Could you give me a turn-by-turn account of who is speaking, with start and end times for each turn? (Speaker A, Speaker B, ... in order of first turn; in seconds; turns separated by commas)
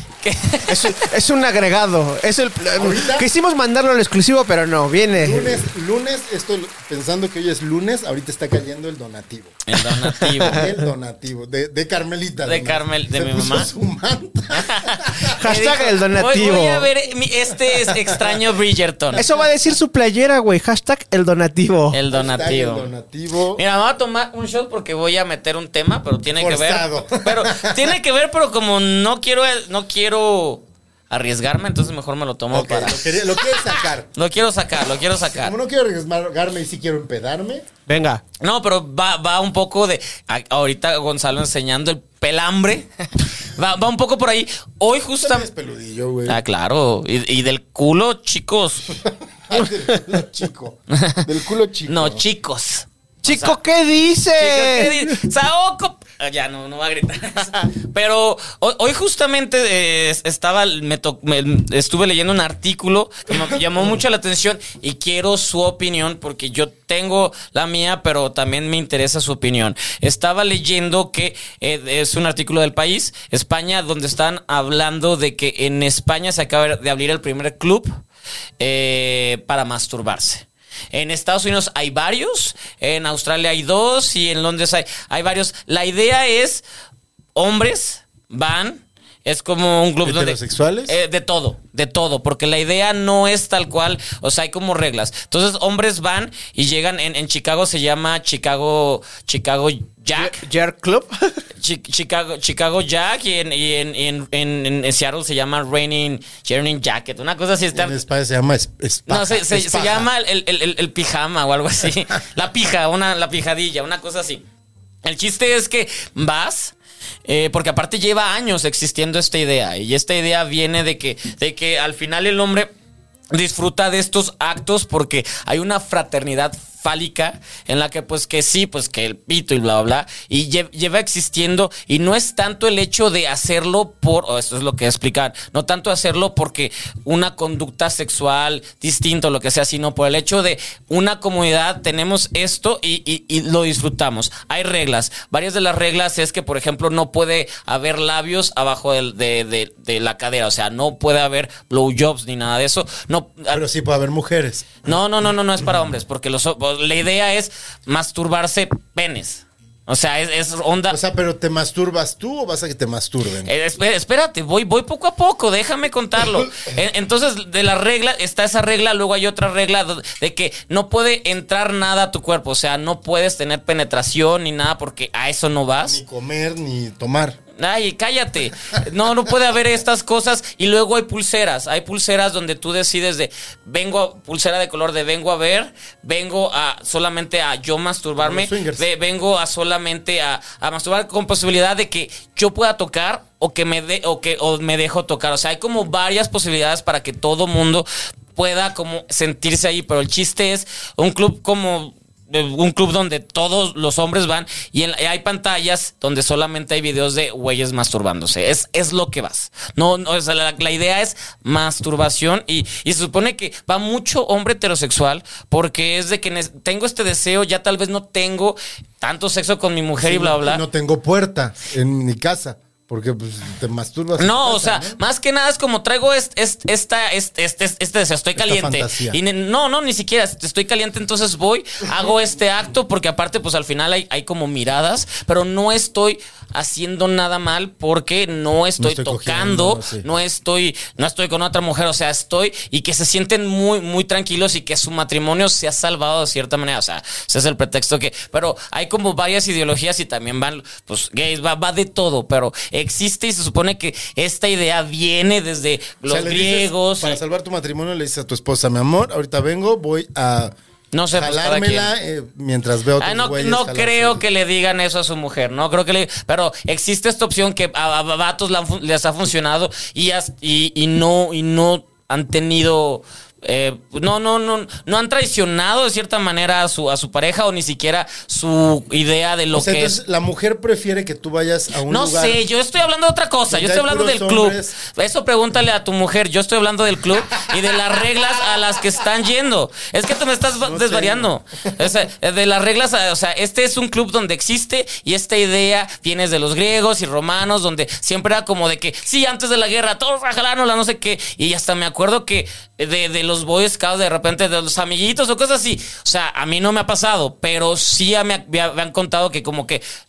Speaker A: 0.2-0.9, Speaker B: 0.7-5.6, Speaker C: 2.8-3.3, Speaker C: 5.1-9.6, Speaker A: 9.7-10.7, Speaker B: 10.0-10.6, Speaker C: 10.4-15.4, Speaker A: 12.4-13.7, Speaker A: 14.5-19.2, Speaker B: 15.4-16.9, Speaker C: 17.6-18.4, Speaker B: 19.2-22.0, Speaker A: 21.9-22.9, Speaker C: 22.1-23.6, Speaker A: 23.6-35.5, Speaker C: 26.3-28.0, Speaker C: 32.5-34.1, Speaker C: 35.3-37.7, Speaker B: 37.9-38.2, Speaker A: 38.4-45.5, Speaker C: 45.2-46.4, Speaker A: 46.3-49.0, Speaker C: 49.0-52.2, Speaker A: 50.9-51.3, Speaker A: 51.9-53.6, Speaker B: 53.2-55.2, Speaker A: 54.4-77.9, Speaker A: 78.6-86.6, Speaker A: 87.4-100.4, Speaker C: 90.0-91.0, Speaker B: 100.2-101.4, Speaker A: 101.6-108.0, Speaker C: 107.7-110.1, Speaker A: 109.1-114.5, Speaker A: 115.0-122.7, Speaker A: 123.3-153.6, Speaker C: 153.5-154.9, Speaker A: 154.8-161.0, Speaker C: 160.9-163.5, Speaker A: 163.5-176.0, Speaker C: 175.8-177.4, Speaker A: 177.6-220.6, Speaker C: 188.2-188.9, Speaker C: 220.0-225.0, Speaker A: 224.2-257.2, Speaker C: 228.4-229.2, Speaker C: 238.8-240.1, Speaker C: 256.1-260.6, Speaker A: 260.9-261.9, Speaker C: 261.1-264.2, Speaker A: 263.0-280.0, Speaker C: 279.5-282.4, Speaker A: 281.9-309.8, Speaker C: 283.5-284.8, Speaker C: 287.4-288.6, Speaker C: 290.6-291.3